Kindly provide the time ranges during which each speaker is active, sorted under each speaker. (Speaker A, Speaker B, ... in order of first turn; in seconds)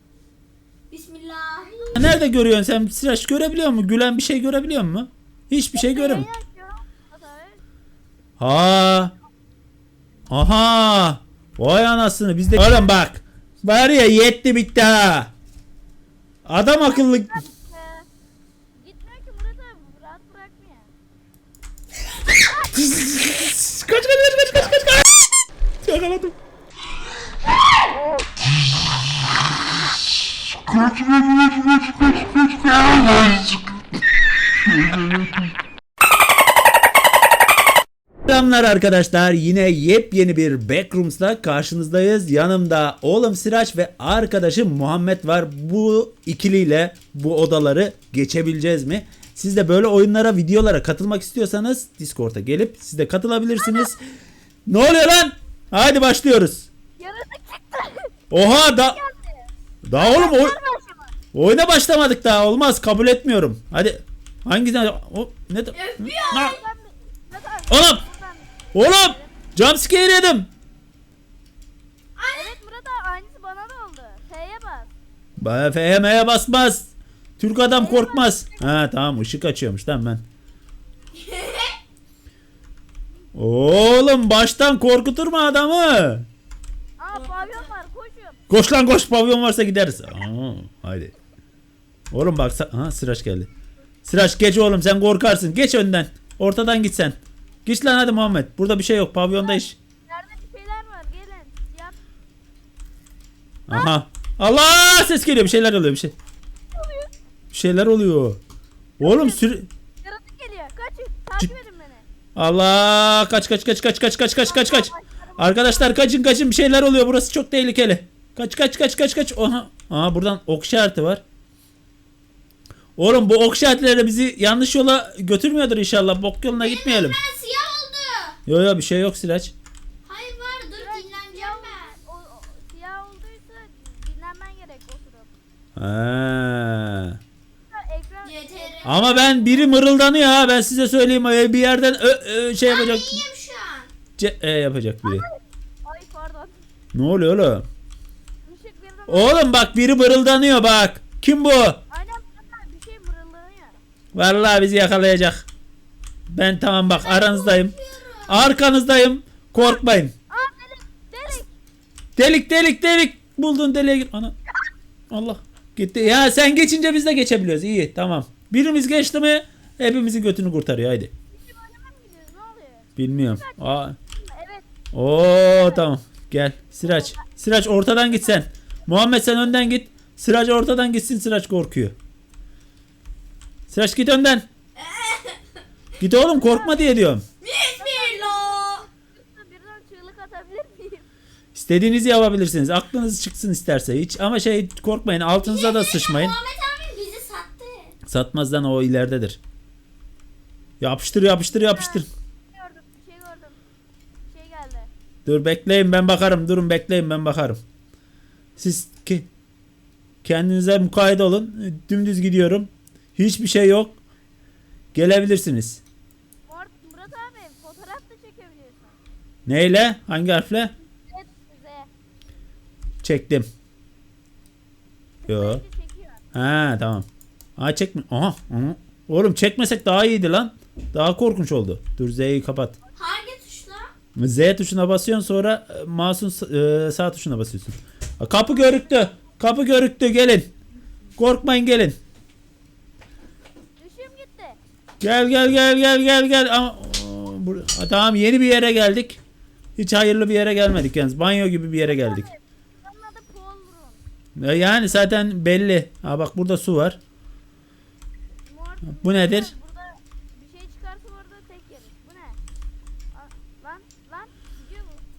Speaker A: 0.9-2.1, 65.7-66.6, 72.2-72.6, 81.1-81.8, 87.1-87.7, 126.5-128.4, 130.0-132.0, 138.2-139.3, 142.6-143.9, 156.8-158.5, 184.7-185.6, 187.4-188.9, 195.4-197.9, 233.0-233.9
Speaker B: 1.9-6.3, 8.4-9.1, 10.3-15.3, 16.5-17.4, 22.7-25.1, 25.8-26.4, 38.3-54.0, 54.7-56.7, 58.3-59.0, 59.8-60.6, 61.3-66.5, 67.7-68.0, 68.7-70.5, 75.4-80.2, 83.3-86.3, 88.5-91.1, 92.1-93.5, 94.0-99.8, 103.7-106.1, 107.5-108.4, 109.0-109.7, 112.4-121.2, 123.0-127.2, 128.5-129.5, 135.8-137.2, 138.8-143.2, 144.2-145.2, 146.9-147.7, 149.1-151.8, 154.1-155.5, 156.3-157.7, 158.3-160.1, 162.2-164.3, 165.1-171.1, 173.0-174.0, 174.9-181.9, 183.7-184.5, 186.0-187.2, 191.6-196.3, 198.1-199.4, 200.8-202.1, 205.3-207.6, 208.6-209.3, 210.2-214.0, 214.9-215.8, 219.5-220.7, 223.0-223.5, 225.3-225.6, 226.3-232.8, 234.2-240.5, 241.2-242.0, 245.0-249.2, 249.8-252.3, 254.4-257.0, 258.9-259.5
Speaker C: 5.8-7.6, 16.8-18.1, 18.8-20.9, 53.6-53.9, 57.0-59.2, 60.0-61.1, 66.3-69.3, 72.3-74.9, 77.6-78.7, 87.0-88.4, 99.4-102.0, 106.7-107.1, 109.0-109.5, 110.0-112.0, 114.3-116.0, 130.8-135.3, 137.7-139.7, 145.0-146.6, 148.4-149.5, 151.9-153.8, 159.6-161.5, 171.3-174.6, 175.5-175.8, 176.8-177.2, 178.1-178.4, 186.2-187.0, 187.8-188.5, 189.2-191.1, 201.5-203.6, 204.3-204.9, 216.5-219.0, 221.1-221.9, 225.2-226.2, 238.4-239.2, 243.8-244.6, 251.9-254.0, 258.5-262.4, 263.1-265.0